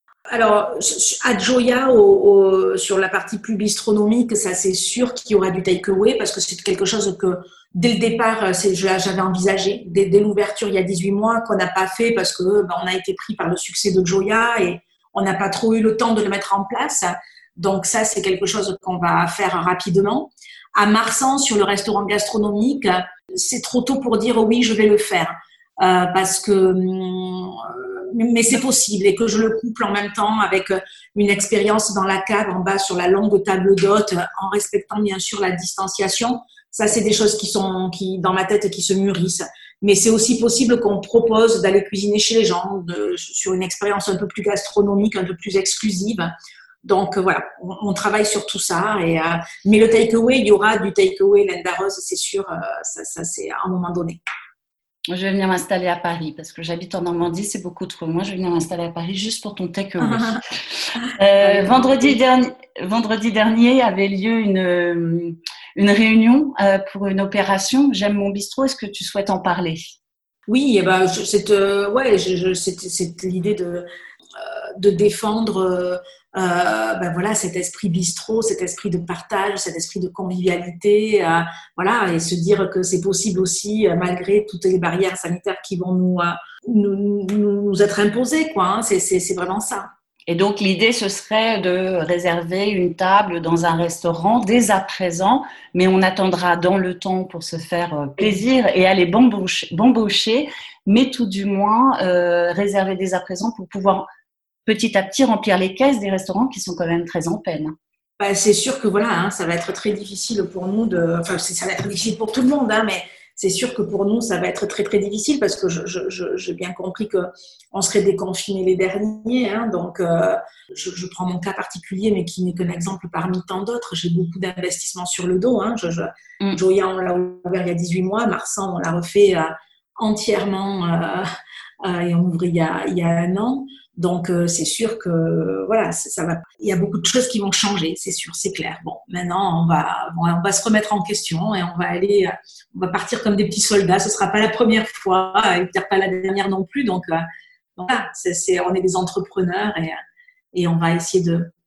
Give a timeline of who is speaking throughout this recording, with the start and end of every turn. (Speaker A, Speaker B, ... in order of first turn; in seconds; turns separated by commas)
Speaker A: 0.3-46.3, Speaker A: 46.8-54.2, Speaker B: 55.1-60.4, Speaker A: 60.0-60.4, Speaker B: 61.0-69.8, Speaker A: 61.4-62.2, Speaker A: 70.5-89.9, Speaker B: 90.3-104.1, Speaker B: 104.7-107.7, Speaker A: 108.2-131.2, Speaker A: 131.8-147.2, Speaker A: 147.8-149.9, Speaker A: 150.5-151.5